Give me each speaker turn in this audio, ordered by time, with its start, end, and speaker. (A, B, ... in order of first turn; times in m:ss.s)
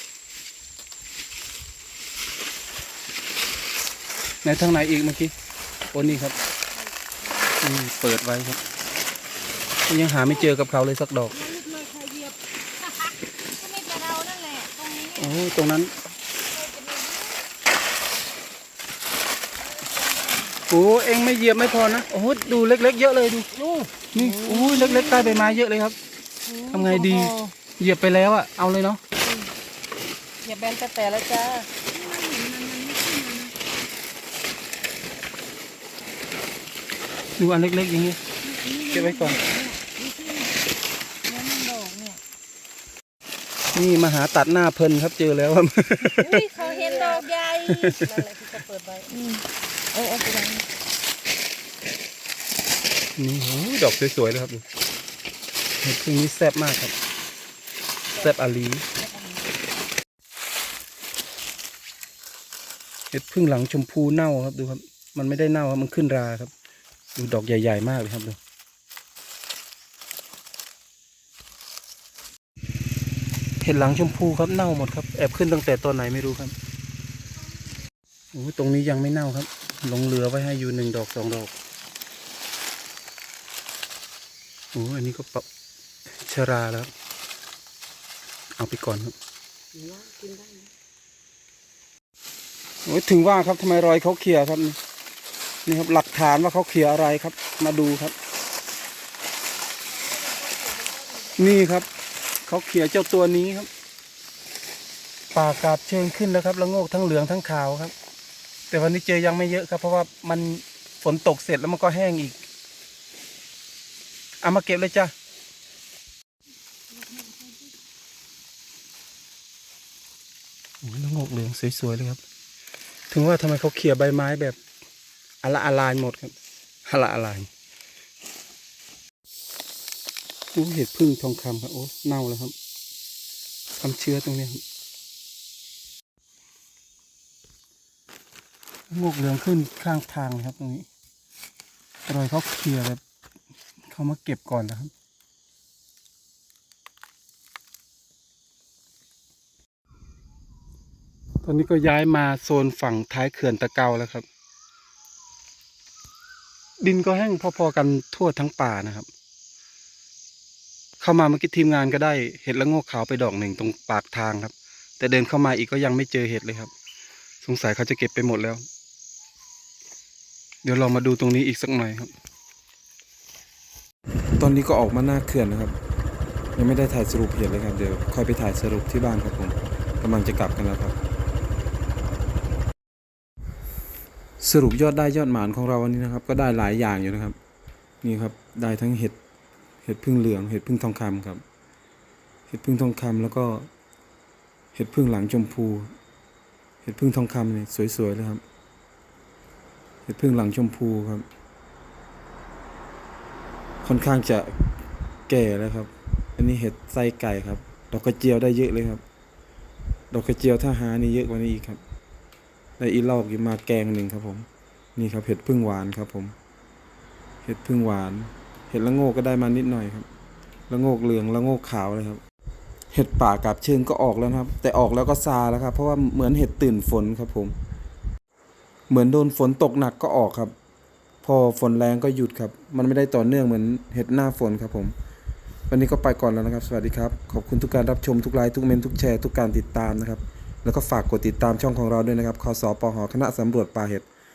0:04.4-0:05.3 A
0:05.9-0:06.4 A
0:07.6-0:08.6 A
0:09.9-0:11.4 A
0:11.4-0:15.3 B
0:13.6-0:15.1 C
0:15.2-0:15.9 A
0:16.7-0:17.3 C
0:19.8-0:20.5 B
0:20.7-0:23.5 A
0:23.5-0:25.5 B
0:24.1-0:26.0 A
0:26.5-0:27.5 B
0:26.7-0:29.0 A
0:29.2-0:29.5 B
0:30.4-0:33.6 B
0:37.4-0:38.2 A
0:38.4-0:40.5 B
0:38.9-0:39.4 A
0:41.3-0:42.2 C
0:41.3-0:42.2 B
0:43.7-0:46.5 A
0:46.2-0:49.4 B
0:46.5-0:47.8 C
0:47.6-0:48.1 A
0:49.9-0:50.6 C
0:53.2-0:54.6 A
0:55.8-0:56.9 A
0:58.2-0:58.9 A
1:03.1-1:06.5 A
1:07.2-1:08.4 A
1:13.6-1:16.6 A
1:18.3-1:21.5 A
1:24.7-1:25.5 A
1:26.1-1:26.9 A
1:28.6-1:29.2 A
1:29.7-1:30.7 B
1:32.9-1:34.8 A
1:35.7-1:38.2 A
1:40.4-1:41.0 B
1:41.2-1:41.9 A
1:42.5-1:43.7 A
1:45.3-1:47.9 A
1:48.7-1:52.4 A
1:54.4-1:55.1 A
2:00.8-2:02.2 A
2:03.1-2:04.6 A
2:05.4-2:07.5 A
2:10.5-2:12.5 A
2:13.8-2:14.6 A
2:18.9-2:20.9 A
2:22.1-2:23.0 A
2:23.9-2:24.9 A
2:31.4-2:34.3 A
2:36.8-2:39.1 A
2:41.0-2:46.7 A
2:47.4-2:48.6 A
2:50.6-2:52.1 A
2:54.4-2:55.8 A
2:56.6-3:01.0 A
3:04.4-3:07.4 A
3:08.0-3:09.2 A
3:09.8-3:11.4 A
3:12.5-3:13.7 A
3:14.8-3:15.9 A
3:16.8-3:18.4 A
3:20.1-3:21.3 A
3:23.8-3:24.5 A
3:25.3-3:29.0 A
3:30.1-3:31.8 A
3:32.8-3:36.4 A
3:37.4-3:40.1 A
3:40.7-3:42.2 A
3:42.9-3:47.5 A
3:48.9-3:50.6 A
3:51.2-3:54.9 A
3:55.7-4:04.1 A